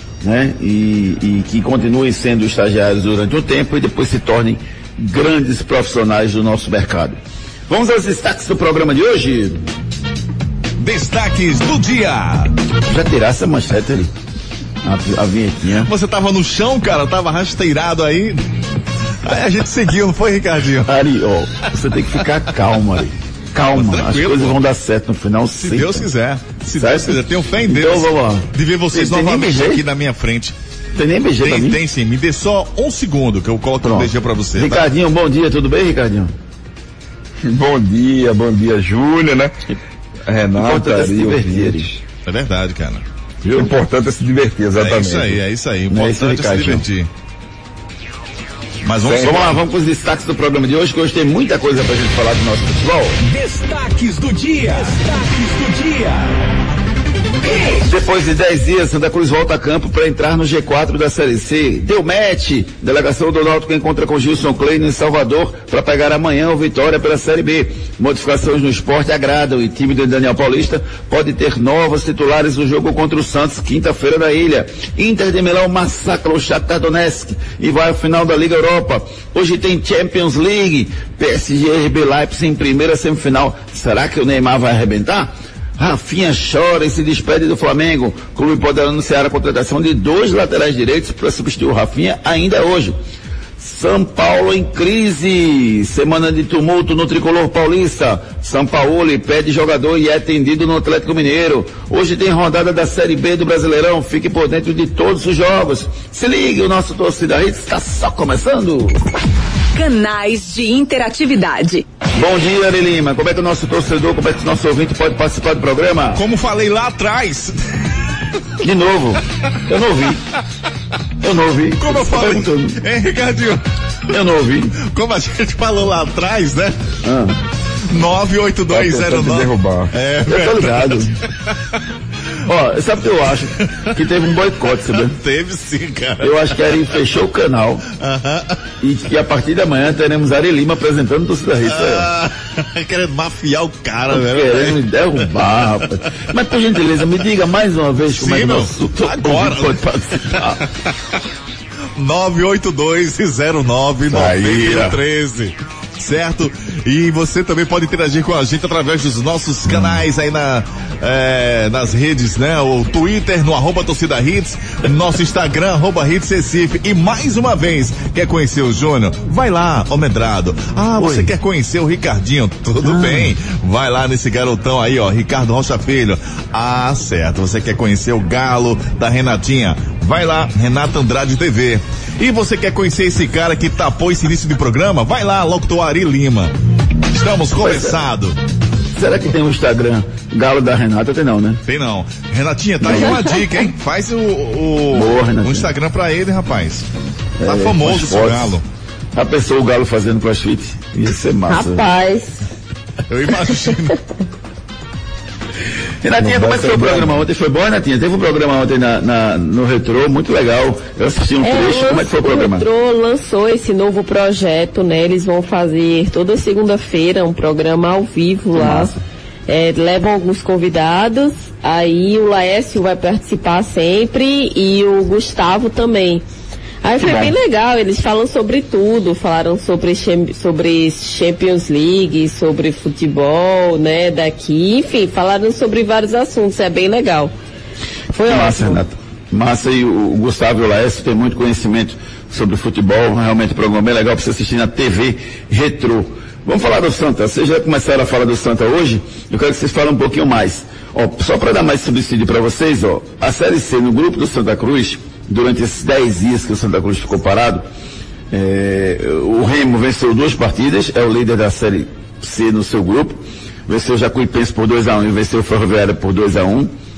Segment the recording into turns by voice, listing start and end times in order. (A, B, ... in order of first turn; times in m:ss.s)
0:00.2-0:09.6 A
0:10.8-0:12.5 B
0:12.9-0:14.1 A
0:14.8-0:15.9 A
0:15.8-0:18.4 B
0:19.2-0:20.9 B
0:20.9-0:26.0 A
0:23.6-0:24.6 B
0:25.6-0:30.5 B
0:26.7-0:29.8 A
0:30.9-0:31.8 A
0:31.4-0:34.8 B
0:33.8-0:36.3 A
0:37.4-0:39.5 C
0:40.3-0:42.0 C
0:40.6-0:41.8 A
0:42.2-0:43.0 B
0:43.4-0:43.7 A
0:43.5-0:45.4 C
0:44.8-0:47.1 B
0:45.9-0:46.8 A
0:48.8-0:49.6 B
0:49.0-0:49.5 C
0:49.2-0:53.2 A
0:53.2-0:56.4 D
0:57.8-1:33.0 A
1:33.6-1:49.0 A
1:49.7-1:51.8 E
1:52.1-1:56.2 A
1:56.1-1:57.5 B
1:58.6-2:00.2 A
2:01.2-2:02.8 A
2:01.8-2:03.6 B
2:04.1-2:04.7 A
2:04.8-2:06.8 B
2:07.0-2:07.4 A
2:07.9-2:11.1 B
2:08.7-2:09.9 C
2:10.2-2:11.1 A
2:12.4-2:15.2 A
2:15.1-2:16.6 B
2:16.2-2:17.8 A
2:18.0-2:18.6 B
2:18.8-2:22.1 A
2:21.6-2:24.8 B
2:24.1-2:30.6 A
2:28.1-2:29.8 B
2:32.0-3:06.5 B
2:34.1-2:35.0 A
2:39.7-2:40.0 A
2:51.0-2:51.3 A
2:52.8-2:53.3 A
3:07.1-3:08.4 B
3:07.5-3:08.0 A
3:08.9-3:11.6 A
3:11.7-3:16.8 B
3:12.8-3:13.3 A
3:14.9-3:15.7 A
3:17.4-3:18.6 A
3:17.4-3:18.6 B
3:19.1-3:21.8 A
3:21.5-3:22.4 F
3:23.1-3:24.0 B
3:26.0-3:32.6 A
3:26.2-3:27.2 C
3:31.4-3:38.9 F
3:38.5-3:39.0 A
3:39.5-3:46.2 F
3:46.8-3:57.3 F
3:47.0-3:47.3 A
3:58.1-3:58.8 F
3:58.3-4:17.6 A
4:18.3-4:26.7 A